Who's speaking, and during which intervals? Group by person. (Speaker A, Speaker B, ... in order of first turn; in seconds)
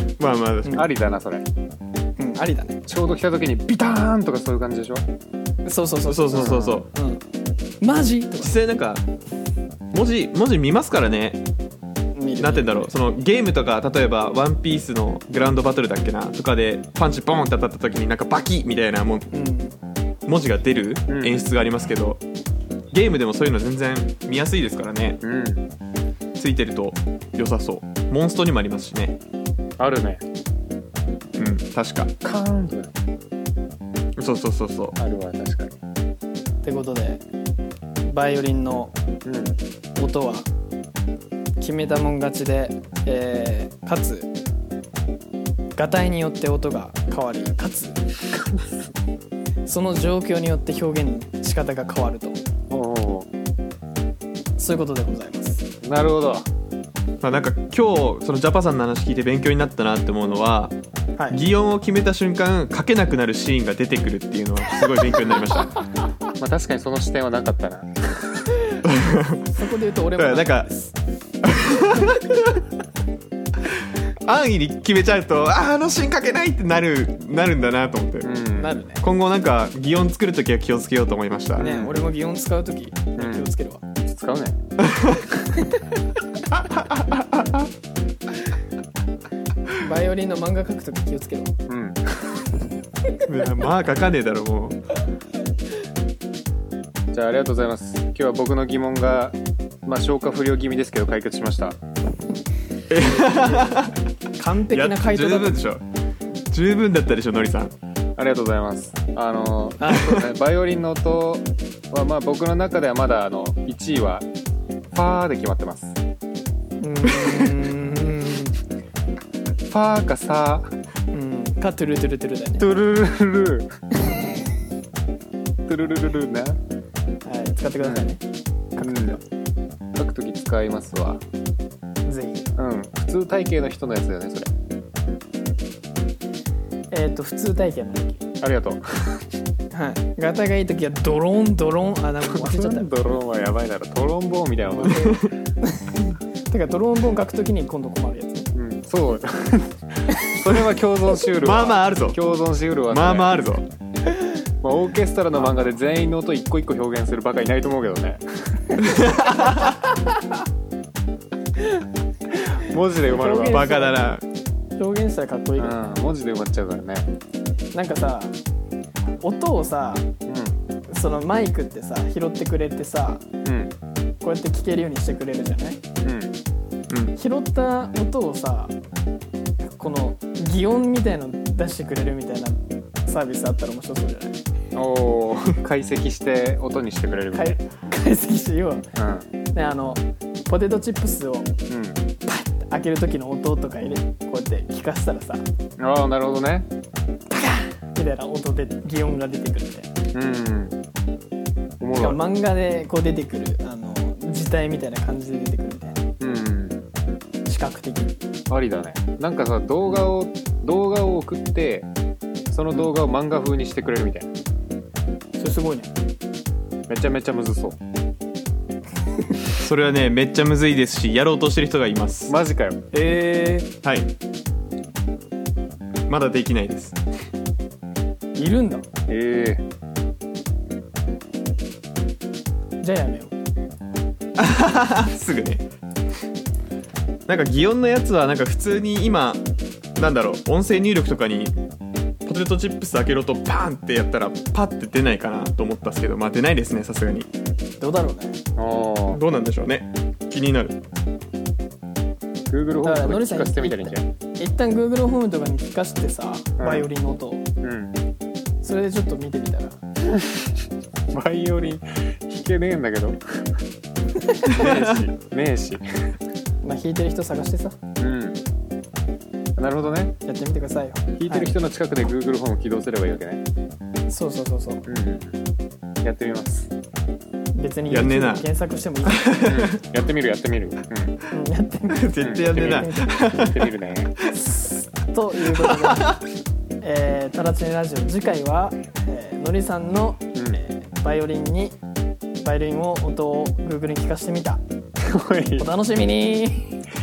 Speaker A: 0.2-0.9, 6.1-6.9, 8.4-9.0, 9.9-11.4, 12.4-19.3, 20.3-22.2, 22.9-25.2, 26.4-29.2, 31.4-32.1, 34.2-35.0, 57.2-60.8, 61.3-65.8, 68.8-69.5, 70.2-70.7, 71.4-72.6, 74.2-78.4, 79.0-81.7, 84.8-85.3, 86.8-87.6, 93.3-94.8, 102.9-103.9, 104.7-105.8, 106.5-107.7, 117.2-117.5, 151.4-152.2, 152.9-153.7, 158.8-159.8, 163.4-164.2, 219.5-222.3, 223.6-224.1, 226.1-227.0, 234.4-235.6, 237.3-239.4, 240.0-241.5, 242.2-247.3, 249.1-250.8, 264.6-264.9, 277.9-278.4, 279.1-279.8, 281.9-283.7, 285.7-286.2
Speaker B: 0.7-1.4, 2.9-5.0, 6.3-6.8, 21.1-21.5, 25.2-25.7, 29.8-30.2, 32.2-32.9, 35.0-35.8, 39.2-39.6, 48.3-48.8, 52.7-53.3, 55.8-56.5, 65.1-65.7, 66.4-68.6, 78.2-78.8, 81.6-82.0, 83.2-83.5, 84.0-84.6, 91.7-92.5, 97.1-101.8, 108.2-114.3, 114.9-115.9, 119.7-120.7, 122.6-123.7, 125.7-126.6, 127.8-128.1, 128.8-129.2, 129.9-131.2, 132.6-134.5, 138.4-139.3, 142.3-145.1, 148.5-153.3, 154.6-158.8, 162.3-163.7, 165.6-167.1, 170.3-170.6, 173.4-173.7, 176.0-176.4, 184.7-187.6, 189.0-189.3, 191.7-192.0, 195.8-196.7, 200.1-200.8, 201.8-202.2, 206.2-206.8, 208.5-211.9, 212.5-214.3, 216.9-217.8, 222.3-222.9, 229.1-229.7, 248.6-249.2, 252.5-254.1, 256.6-256.9, 257.6-257.9, 260.1-260.5, 261.1-263.5, 264.5-265.9, 268.0-268.4, 269.6-270.2, 271.2-273.4, 274.9-275.4, 276.0-276.7, 279.4-281.2, 282.2-282.8, 283.4-284.1, 295.0-295.7
Speaker C: 2.2-2.8, 5.7-7.2, 7.8-8.6, 12.2-12.9, 19.3-19.8, 36.6-37.2, 38.1-39.0, 40.0-40.5, 41.6-44.3, 45.8-48.0, 49.7-52.4, 54.6-55.7, 69.5-70.9, 78.5-79.0, 81.6-83.8, 85.6-86.0, 89.8-91.5, 103.0-105.7, 109.8-110.2, 116.8-118.6, 121.1-122.7, 124.0-124.3, 127.3-128.2, 128.8-129.2, 132.1-132.5, 136.9-138.2, 139.7-142.9, 144.7-148.5, 161.6-161.8, 163.1-164.0, 164.8-165.9, 167.7-168.4, 169.2-170.1, 170.9-173.2, 174.2-175.8, 177.2-178.7, 179.6-184.4, 187.3-188.9, 189.5-191.5, 192.2-195.4, 197.3-199.9, 201.9-206.0, 207.5-208.2, 215.4-215.9, 223.0-223.6, 228.4-228.9, 232.8-233.3, 247.8-248.4, 252.8-257.4, 258.6-259.8, 264.2-264.5, 266.6-267.8, 270.2-271.5, 274.1-274.8, 277.6-279.3, 281.3-283.2, 284.3-286.2, 286.8-291.8, 292.4-294.6, 295.6-296.8